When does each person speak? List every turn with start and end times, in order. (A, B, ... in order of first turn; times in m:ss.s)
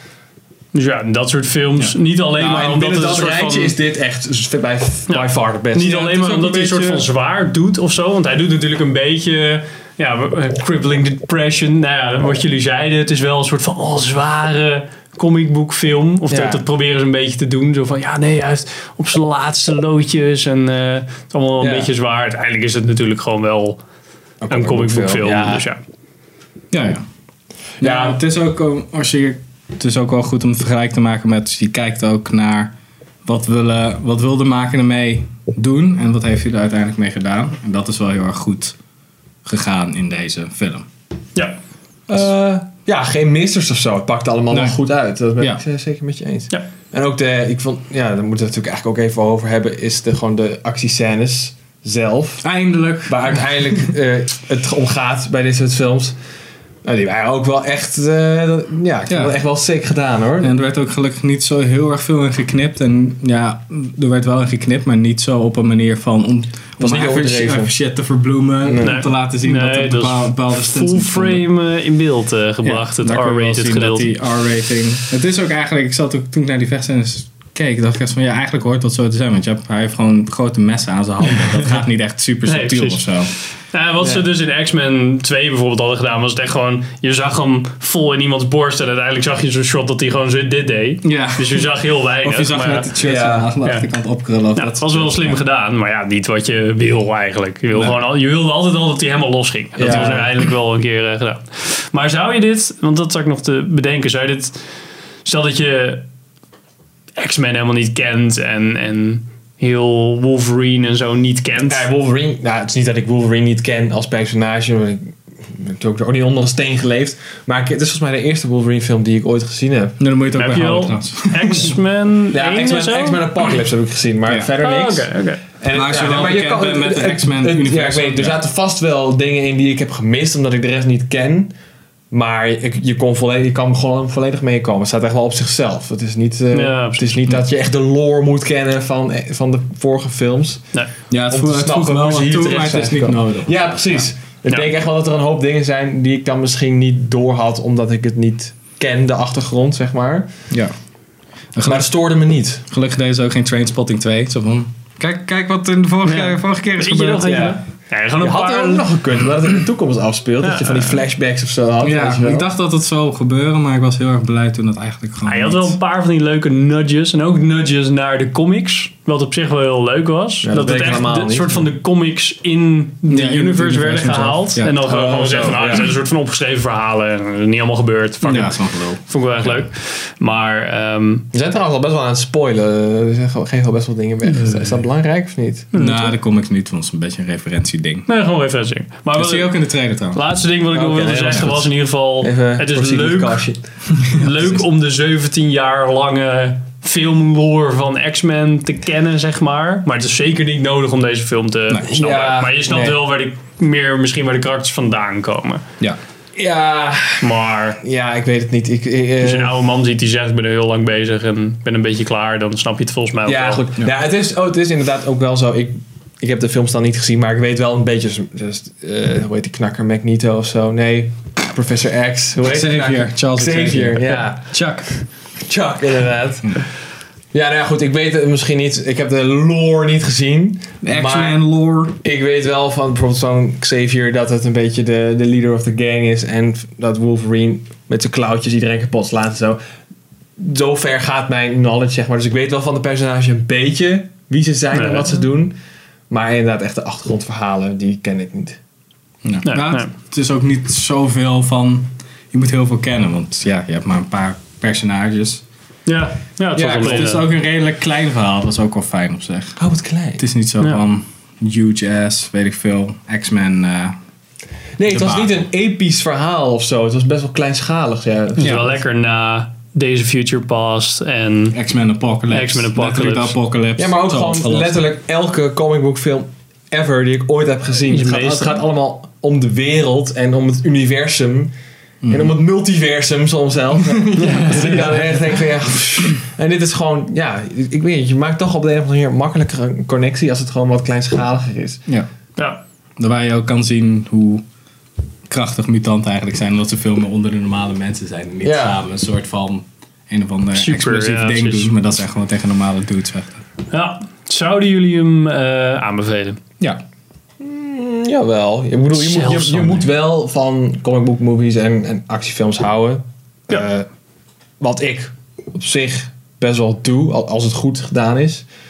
0:00.7-0:03.8 A
0:02.4-0:06.3 B
0:05.1-0:23.8 A
0:05.9-0:07.1 C
0:16.3-0:16.6 B
0:21.6-0:21.9 B
0:24.4-0:25.6 B
0:24.5-0:25.8 A
0:26.7-0:27.0 C
0:27.8-0:28.2 B
0:27.8-0:32.7 C
0:33.2-0:38.8 C
0:39.4-0:40.9 C
0:42.1-0:52.4 B
0:44.5-0:44.8 C
0:52.4-0:53.4 C
0:53.1-0:56.2 B
0:56.8-1:00.5 B
0:59.1-0:59.3 C
1:00.4-1:11.5 C
1:06.8-1:07.7 B
1:08.6-1:09.1 B
1:08.8-1:14.1 A
1:12.6-1:23.3 C
1:22.4-1:32.9 A
1:31.0-1:35.4 C
1:33.0-1:33.5 B
1:34.6-1:44.6 A
1:37.7-1:38.0 C
1:39.8-1:40.3 B
1:39.8-1:40.2 C
1:45.2-1:46.0 A
1:47.2-1:51.9 A
1:51.7-2:00.0 B
2:00.0-2:01.8 C
2:00.3-2:03.6 A
2:02.3-2:11.5 B
2:04.6-2:05.4 A
2:05.7-2:08.4 C
2:12.1-2:20.6 B
2:16.5-2:17.2 A
2:21.1-2:24.0 C
2:21.3-2:30.3 B
2:31.5-2:31.9 C
2:31.6-2:32.6 B
2:32.7-2:37.5 C
2:36.0-2:38.8 A
2:37.2-2:37.6 B
2:38.2-2:42.5 B
2:40.4-2:41.0 A
2:41.8-2:45.7 C
2:45.2-3:01.3 A
2:50.4-2:51.7 B
2:53.1-2:54.8 C
2:54.8-2:55.9 B
2:58.2-2:59.6 C
3:01.3-3:05.7 B
3:05.7-3:06.1 A
3:05.7-3:08.1 C
3:08.1-3:13.4 A
3:09.1-3:10.2 C
3:10.7-3:14.6 B
3:14.2-3:25.6 A
3:21.7-3:22.0 C
3:21.9-3:23.0 B
3:26.4-3:29.6 B
3:27.2-3:27.8 A
3:29.2-3:33.6 A
3:33.3-3:44.4 B
3:42.4-3:44.9 C
3:45.5-3:46.6 B
3:47.3-3:51.4 B
3:50.8-3:52.0 C
3:52.0-3:59.6 B
4:00.4-4:05.6 B
4:04.7-4:05.2 A
4:06.1-4:08.6 B
4:09.2-4:15.4 C
4:09.4-4:09.9 A
4:15.9-4:17.3 A
4:16.6-4:19.6 C
4:19.6-4:20.2 B
4:20.2-4:24.0 C
4:24.8-4:28.8 B
4:24.9-4:25.4 C
4:28.4-4:31.6 A
4:31.5-4:34.8 C
4:32.3-4:33.4 A
4:33.8-4:41.5 B
4:37.9-4:38.6 A
4:42.0-4:42.3 C
4:42.1-4:51.8 B
4:44.2-4:44.9 A
4:52.4-4:52.6 A
4:53.0-4:54.4 C
4:55.3-5:03.4 C
4:58.4-4:58.8 B
5:00.5-5:01.7 A
5:03.7-5:06.4 A
5:07.4-5:13.9 B
5:08.9-5:09.9 A
5:14.6-5:18.5 B